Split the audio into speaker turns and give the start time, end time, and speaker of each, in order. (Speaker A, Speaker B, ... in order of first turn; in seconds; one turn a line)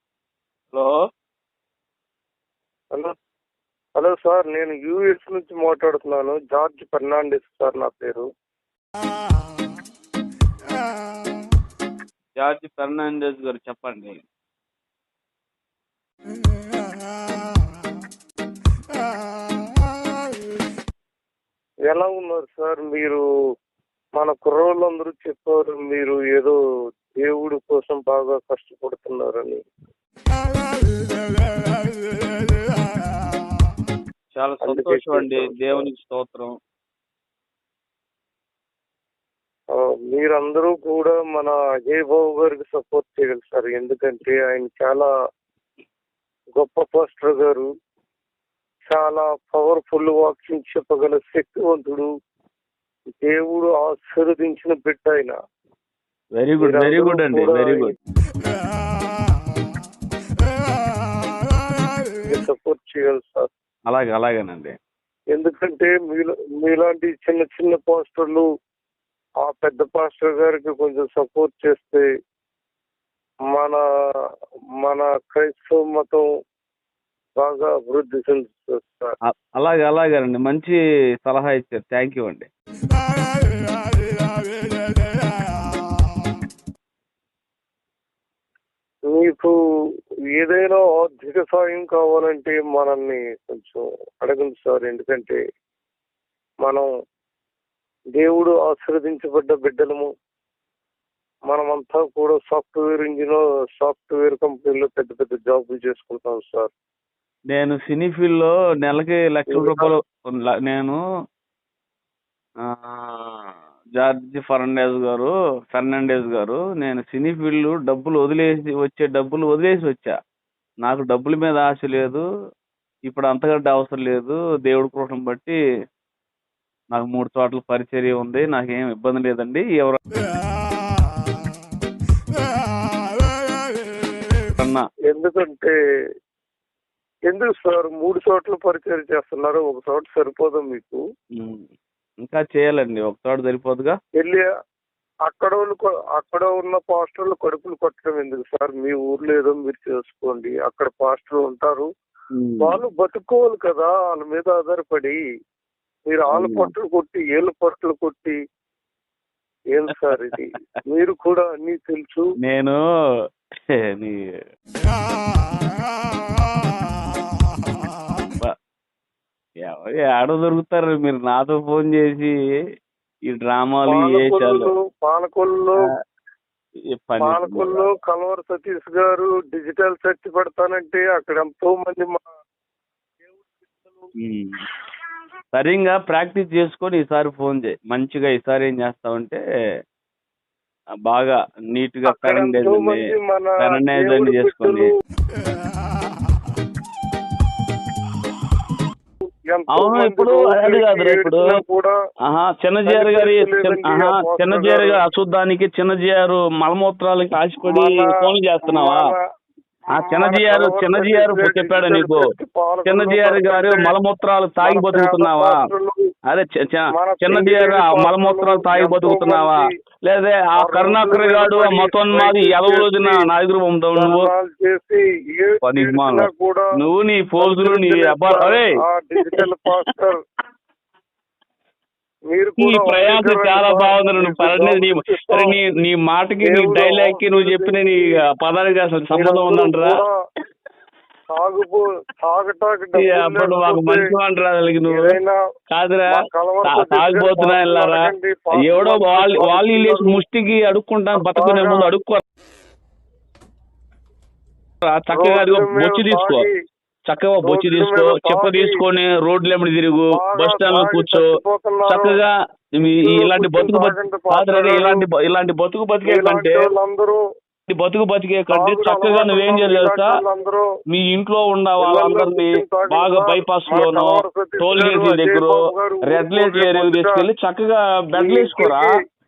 Speaker A: 0.7-1.0
Speaker B: 4.0-8.3
Speaker A: 12.4-14.2
Speaker B: 21.9-23.2
Speaker B: 24.1-26.6
Speaker B: 27.2-29.6
Speaker A: 34.4-36.6
Speaker B: 34.6-35.9
Speaker B: 39.7-45.1
Speaker B: 46.6-47.7
Speaker B: 48.9-52.1
Speaker B: 53.2-55.4
Speaker A: 56.3-57.9
Speaker B: 56.6-57.9
Speaker B: 62.2-63.5
Speaker A: 63.9-64.8
Speaker B: 65.3-68.5
Speaker B: 69.4-72.0
Speaker B: 73.5-73.8
Speaker B: 74.8-76.3
Speaker B: 77.4-79.2
Speaker A: 79.2-82.5
Speaker B: 89.1-89.5
Speaker B: 90.3-95.4
Speaker B: 96.6-96.9
Speaker B: 98.2-100.1
Speaker B: 101.5-106.7
Speaker A: 107.5-111.0
Speaker B: 109.5-109.9
Speaker A: 112.6-120.2
Speaker A: 120.8-122.2
Speaker A: 123.0-125.6
Speaker A: 126.9-130.0
Speaker A: 134.6-134.9
Speaker B: 135.1-135.7
Speaker B: 137.3-141.0
Speaker A: 141.3-141.7
Speaker A: 142.2-144.0
Speaker B: 144.2-144.5
Speaker B: 145.3-151.9
Speaker A: 152.3-152.8
Speaker B: 152.6-155.2
Speaker B: 156.1-158.4
Speaker A: 156.3-156.7
Speaker B: 159.7-162.3
Speaker A: 162.4-162.8
Speaker A: 163.7-164.3
Speaker A: 169.6-172.3
Speaker A: 173.3-174.7
Speaker B: 173.9-175.8
Speaker A: 176.9-177.9
Speaker B: 177.2-182.2
Speaker B: 183.2-184.0
Speaker A: 184.2-184.6
Speaker A: 185.5-189.4
Speaker A: 191.0-193.1
Speaker B: 192.1-194.9
Speaker A: 193.6-194.9
Speaker B: 199.4-201.9
Speaker A: 199.7-201.5
Speaker A: 202.3-209.0
Speaker B: 202.9-205.0
Speaker B: 207.6-208.1
Speaker B: 208.7-209.2
Speaker A: 209.9-212.3
Speaker B: 209.9-213.9
Speaker A: 212.8-215.6
Speaker B: 214.6-216.0
Speaker A: 216.3-224.3
Speaker B: 216.9-219.7
Speaker B: 220.6-223.3
Speaker B: 223.9-226.7
Speaker A: 225.6-228.7
Speaker B: 227.4-230.2
Speaker B: 232.3-235.6
Speaker A: 232.6-240.0
Speaker B: 236.4-238.2
Speaker B: 239.1-240.1
Speaker B: 241.3-244.1
Speaker A: 242.9-245.2
Speaker B: 244.9-245.4
Speaker A: 245.7-252.2
Speaker B: 246.1-250.2
Speaker B: 251.2-251.9
Speaker A: 254.8-256.5
Speaker B: 255.1-256.5
Speaker A: 257.1-261.3
Speaker B: 257.4-258.8
Speaker B: 260.1-262.2
Speaker A: 261.9-266.7
Speaker B: 262.9-265.1
Speaker B: 266.0-267.2
Speaker A: 267.7-270.1
Speaker B: 268.5-270.7
Speaker A: 270.9-278.9
Speaker B: 271.8-277.3
Speaker B: 278.1-278.9